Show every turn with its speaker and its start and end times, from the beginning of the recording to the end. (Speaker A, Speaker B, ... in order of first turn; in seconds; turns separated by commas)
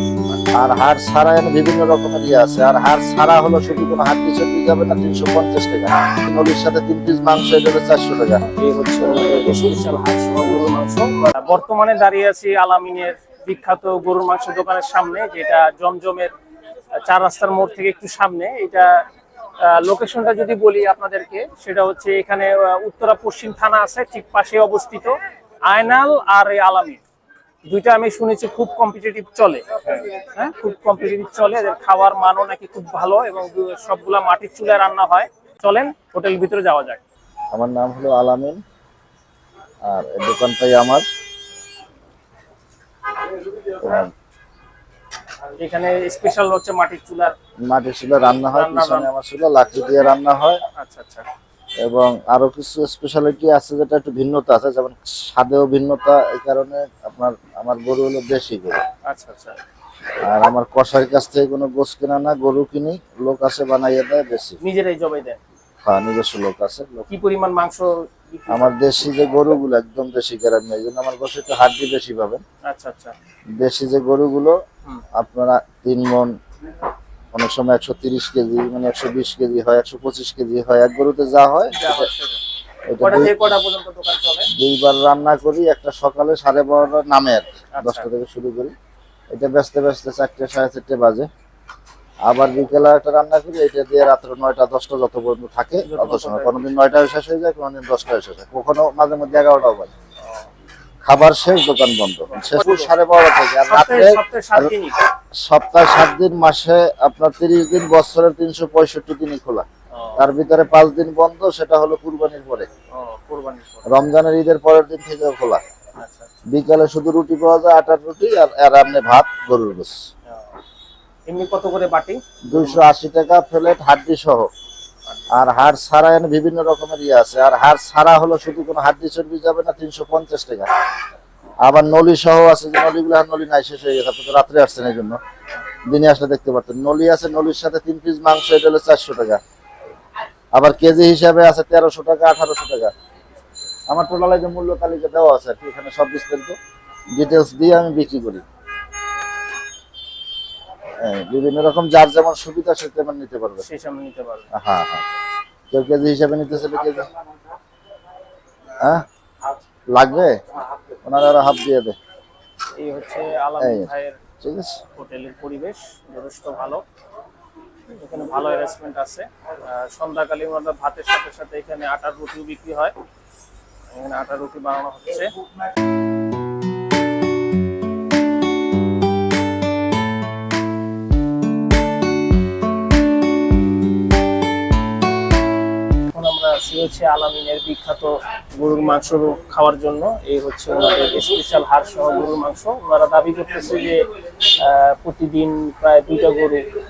Speaker A: 0.5-8.4, Speaker B: 8.5-16.3, Speaker B: 17.0-19.0, Speaker B: 19.6-27.0, Speaker B: 27.6-37.0, Speaker A: 37.5-38.6, Speaker A: 39.8-41.0, Speaker A: 43.7-44.1, Speaker B: 45.6-47.3, Speaker A: 47.7-50.6, Speaker B: 48.5-49.1, Speaker B: 50.8-51.3, Speaker A: 51.8-58.8, Speaker B: 59.0-59.6, Speaker A: 60.2-64.6, Speaker B: 64.6-65.4, Speaker A: 65.8-67.1, Speaker B: 67.1-68.7, Speaker A: 68.5-72.4, Speaker B: 72.6-73.1, Speaker A: 73.6-74.6, Speaker A: 75.2-76.3, Speaker A: 77.3-82.1, Speaker B: 81.7-82.4, Speaker A: 82.9-83.3, Speaker B: 83.0-84.5, Speaker A: 84.6-88.7, Speaker B: 87.8-88.1, Speaker A: 89.3-91.3, Speaker A: 92.3-99.9, Speaker B: 95.8-96.8, Speaker B: 100.2-100.5, Speaker A: 101.0-104.7, Speaker B: 102.3-102.9, Speaker B: 103.7-105.0, Speaker A: 105.4-109.7, Speaker B: 109.9-110.3, Speaker A: 110.2-112.7, Speaker B: 112.9-113.9, Speaker A: 113.9-115.6, Speaker B: 116.0-116.3, Speaker A: 116.5-119.9, Speaker B: 120.3-120.6, Speaker B: 121.3-122.8, Speaker A: 122.5-124.5, Speaker B: 125.1-125.3, Speaker A: 125.3-130.7, Speaker A: 131.6-135.2, Speaker A: 135.9-139.4, Speaker A: 140.5-142.9, Speaker A: 143.9-146.6, Speaker A: 147.1-148.4, Speaker A: 151.0-153.6, Speaker B: 153.6-154.5, Speaker A: 154.5-155.0, Speaker A: 155.7-157.1, Speaker A: 159.9-160.4, Speaker A: 161.0-161.9, Speaker B: 162.7-164.2, Speaker A: 163.6-163.9, Speaker A: 164.4-164.8, Speaker B: 164.9-166.8, Speaker B: 167.9-172.9, Speaker B: 173.9-175.4, Speaker B: 186.1-196.7